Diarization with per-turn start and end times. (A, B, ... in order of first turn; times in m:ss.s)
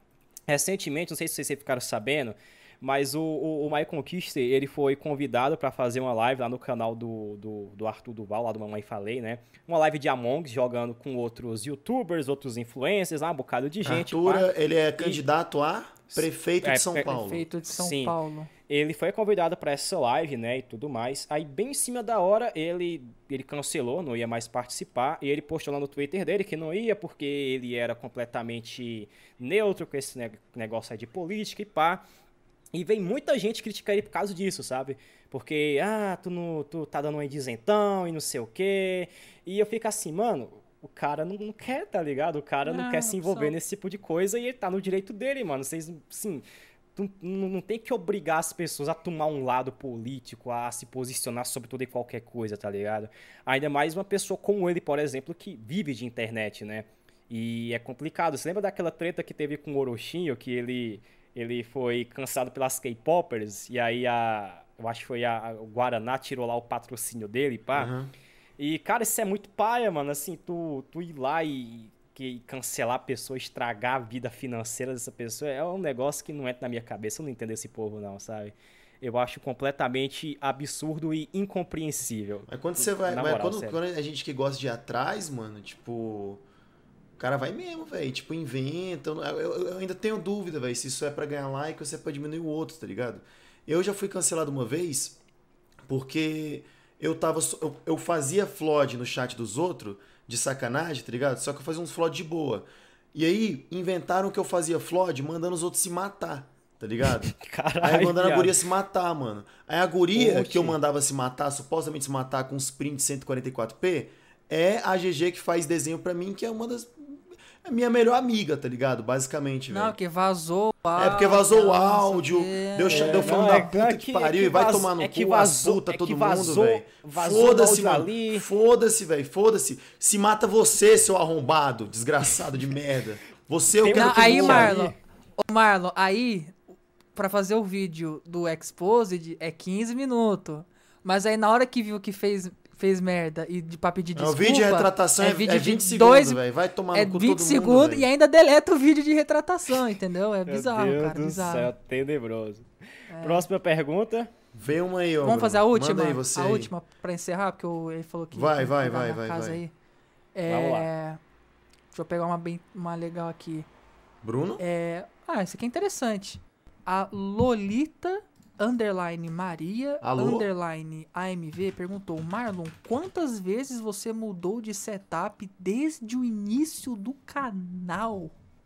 0:00.5-0:15.2 A
0:13.8-0:17.4 B
0:16.1-0:17.1 A
0:17.0-0:18.5 C
0:17.7-0:18.1 A
0:18.7-0:32.0 A
0:32.7-0:46.4 A
0:42.6-0:43.5 C
0:46.9-1:07.9 A
1:07.7-1:08.1 B
1:08.6-1:23.8 A
1:22.5-1:26.4 B
1:27.2-1:35.2 B
1:35.9-2:00.0 B
1:47.1-1:48.6 A
1:50.1-1:50.8 A
1:59.7-2:03.7 C
2:01.0-2:14.9 B
2:02.9-2:08.4 A
2:13.8-2:14.9 A
2:13.9-2:16.5 C
2:17.1-2:31.7 C
2:24.1-2:28.0 B
2:30.4-2:32.7 A
2:33.1-2:33.5 C
2:33.2-2:34.3 A
2:34.5-2:36.7 B
2:35.2-2:39.7 C
2:38.3-2:39.6 B
2:40.3-2:41.2 C
2:40.5-2:40.9 A
2:41.9-2:43.7 C
2:44.2-2:44.6 B
2:44.6-2:58.3 C
2:50.0-2:50.5 B